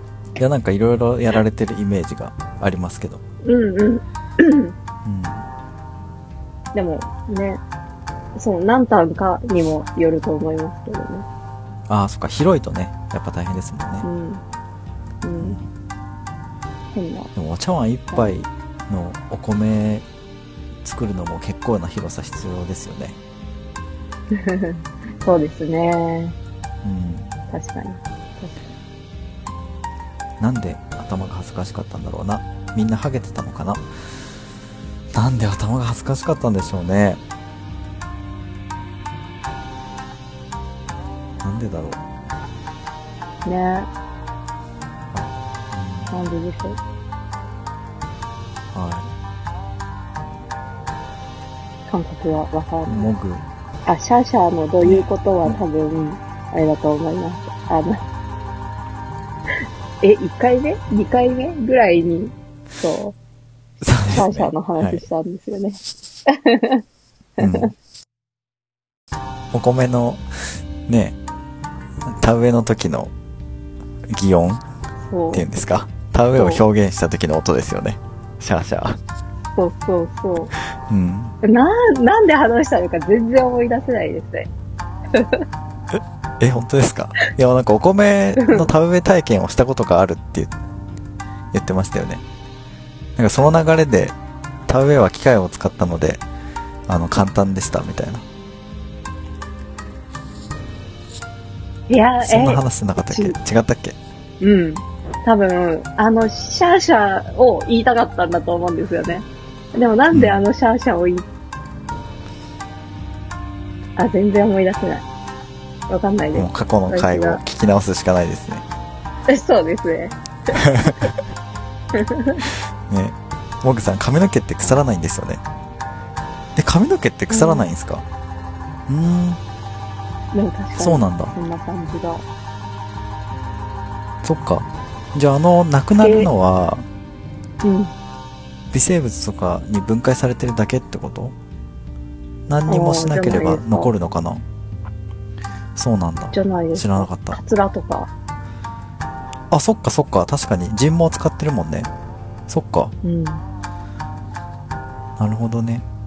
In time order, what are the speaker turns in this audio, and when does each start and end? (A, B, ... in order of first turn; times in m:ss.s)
0:00.4-0:03.2 A
0:03.4-0:04.8 B
0:05.0-0:05.5 A
0:06.7-0:07.6 B
0:08.4-0:11.3 B
0:11.9-0:14.1 A
0:14.0-0:14.4 B
0:15.2-0:15.6 B
0:15.4-0:15.7 A
0:16.9-0:17.3 B
0:17.4-0:20.1 A
0:20.8-0:23.2 A
0:24.3-0:26.4 B
0:26.8-0:27.4 A
0:27.5-0:28.7 B
0:30.4-0:33.8 A
0:35.1-0:37.2 A
0:41.4-0:42.0 A
0:43.4-0:43.9 B
0:45.1-0:46.2 A
0:46.1-0:46.8 B
0:48.7-0:49.1 A
0:51.9-0:53.1 B
0:52.9-0:53.4 A
0:53.9-0:58.0 B
0:54.8-0:55.6 A
1:00.0-1:03.2 B
1:03.8-1:05.0 A
1:04.1-1:06.8 B
1:07.4-1:07.7 B
1:07.4-1:07.7 A
1:09.5-1:11.2 A
1:12.1-1:13.1 A
1:14.1-1:14.6 A
1:15.1-1:15.5 B
1:15.3-1:19.0 A
1:16.4-1:16.6 B
1:19.6-1:20.5 B
1:20.8-1:21.4 A
1:21.4-1:24.5 B
1:25.1-1:25.5 B
1:25.9-1:30.5 A
1:28.4-1:28.7 B
1:31.5-1:32.2 A
1:33.2-1:34.2 A
1:34.7-1:36.2 A
1:36.9-1:38.2 A
1:41.9-1:43.4 B
1:42.2-1:44.0 A
1:44.4-1:51.3 B
1:50.1-1:50.4 A
1:54.0-1:55.1 B
1:55.9-1:57.4 B
1:56.4-1:58.6 A
1:59.3-2:00.6 B
2:00.5-2:01.2 A
2:01.9-2:02.4 B
2:02.9-2:05.4 A
2:06.6-2:08.0 A
2:07.3-2:07.7 B
2:08.9-2:09.4 A
2:10.3-2:12.2 B
2:10.8-2:11.4 A
2:14.2-2:16.9 A
2:16.0-2:16.3 B
2:17.6-2:17.9 B
2:18.7-2:21.4 A
2:22.5-2:24.4 A
2:22.7-2:23.9 B
2:25.8-2:27.4 A
2:26.3-2:28.1 B
2:29.5-2:31.9 A
2:32.5-2:33.0 A
2:33.0-2:33.4 B
2:35.2-2:35.8 A